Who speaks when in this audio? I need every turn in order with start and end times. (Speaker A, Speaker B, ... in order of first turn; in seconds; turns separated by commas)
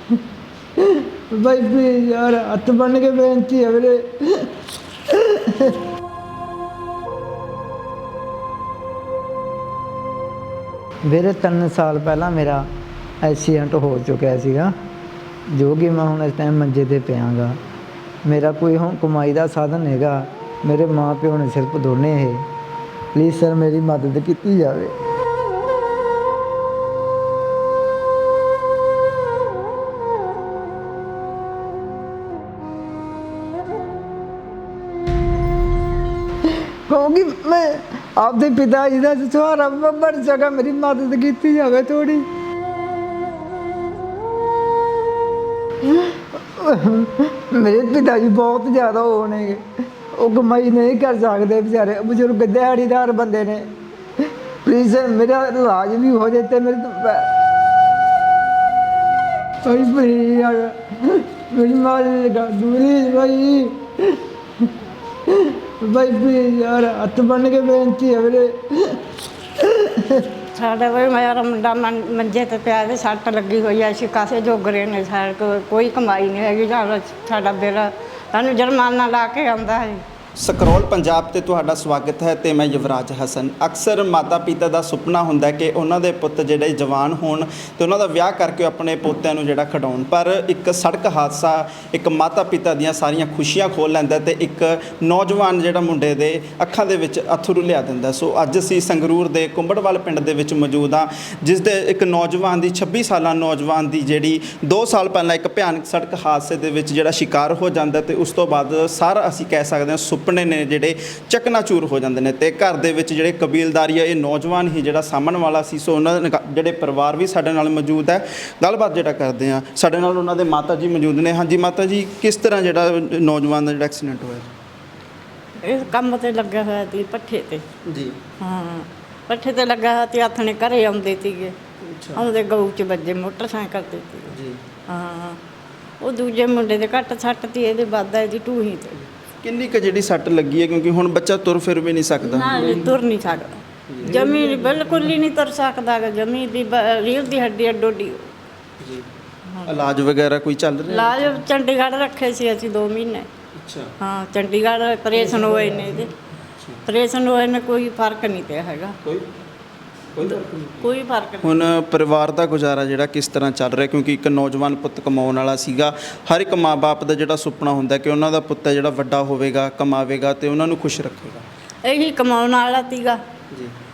Speaker A: 0.8-4.5, Speaker A: 5.1-5.8, Speaker A: 11.1-12.7, Speaker A: 13.2-14.7, Speaker A: 15.5-17.6, Speaker A: 18.2-22.5, Speaker A: 23.1-24.9, Speaker A: 36.9-42.3, Speaker A: 46.0-49.6, Speaker A: 50.1-53.7, Speaker A: 54.6-57.3, Speaker A: 59.6-64.7, Speaker A: 65.3-69.0, Speaker A: 69.6-70.3, Speaker B: 70.6-80.0, Speaker C: 80.4-124.5, Speaker B: 125.6-127.7, Speaker C: 127.8-128.2, Speaker B: 128.4-131.6, Speaker C: 131.8-132.2, Speaker B: 132.1-134.3, Speaker C: 134.3-134.6, Speaker B: 134.9-135.4, Speaker B: 136.0-139.0, Speaker C: 139.4-142.8, Speaker B: 142.2-148.3, Speaker C: 143.9-144.4, Speaker C: 148.8-149.1, Speaker C: 149.7-151.4, Speaker B: 150.9-153.3, Speaker C: 153.6-153.9, Speaker B: 154.0-156.1, Speaker C: 155.2-155.7, Speaker B: 156.9-159.0, Speaker C: 160.1-160.9, Speaker B: 160.8-161.7, Speaker C: 161.4-171.5, Speaker B: 171.8-173.2